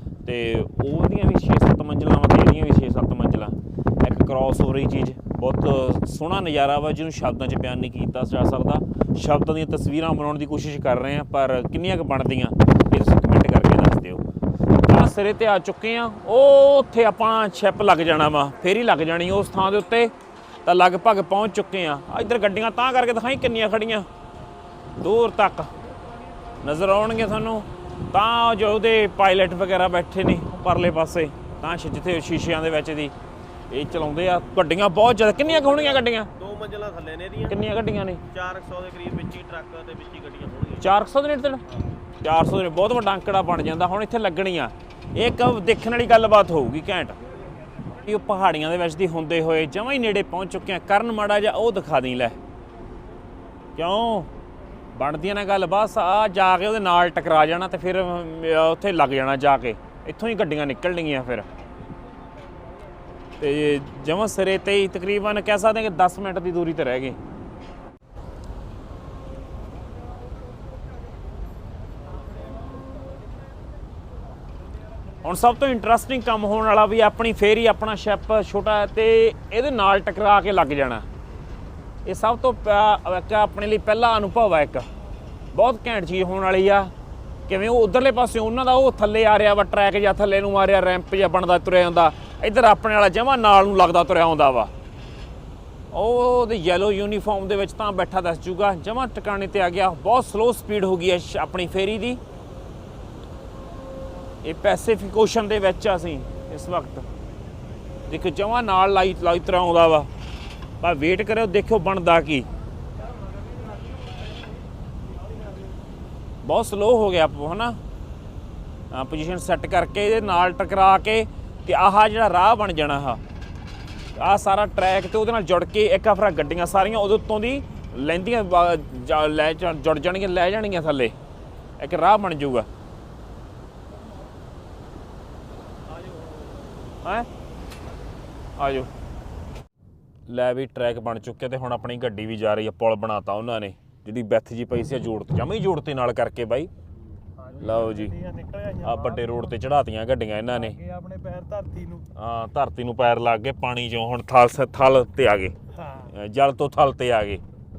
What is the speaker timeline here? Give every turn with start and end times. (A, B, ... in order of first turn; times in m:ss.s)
0:00.2-0:14.2 A
0:14.9-0:20.1 A
0:20.6-0:24.1 A
0:25.0-0:25.7 A
0:26.6-0:33.1 A
0:33.7-0:36.3 A
0:35.4-0:37.6 B
0:37.5-0:38.2 A
0:38.3-0:40.8 B
0:40.8-0:41.6 A
0:42.2-0:47.2 A
0:47.9-0:52.4 A
0:53.8-0:54.3 A
0:54.9-1:01.4 A
1:03.4-1:07.2 A
1:15.2-1:21.0 A
1:22.0-1:24.9 A
1:25.5-1:26.9 A
1:27.5-1:34.7 A
1:35.9-1:42.2 A
1:44.4-1:47.0 A
1:48.1-1:50.1 A
1:50.8-1:52.5 A
1:56.4-1:57.8 A
1:58.9-2:03.2 A
2:04.1-2:11.1 A
2:11.8-2:12.7 A
2:18.6-2:18.9 A
2:20.3-2:26.7 A
2:27.4-2:29.6 C
2:27.6-2:28.1 A
2:28.8-2:30.8 A
2:30.5-2:32.1 C
2:32.1-2:35.5 A
2:35.7-2:36.1 C
2:36.1-2:37.4 A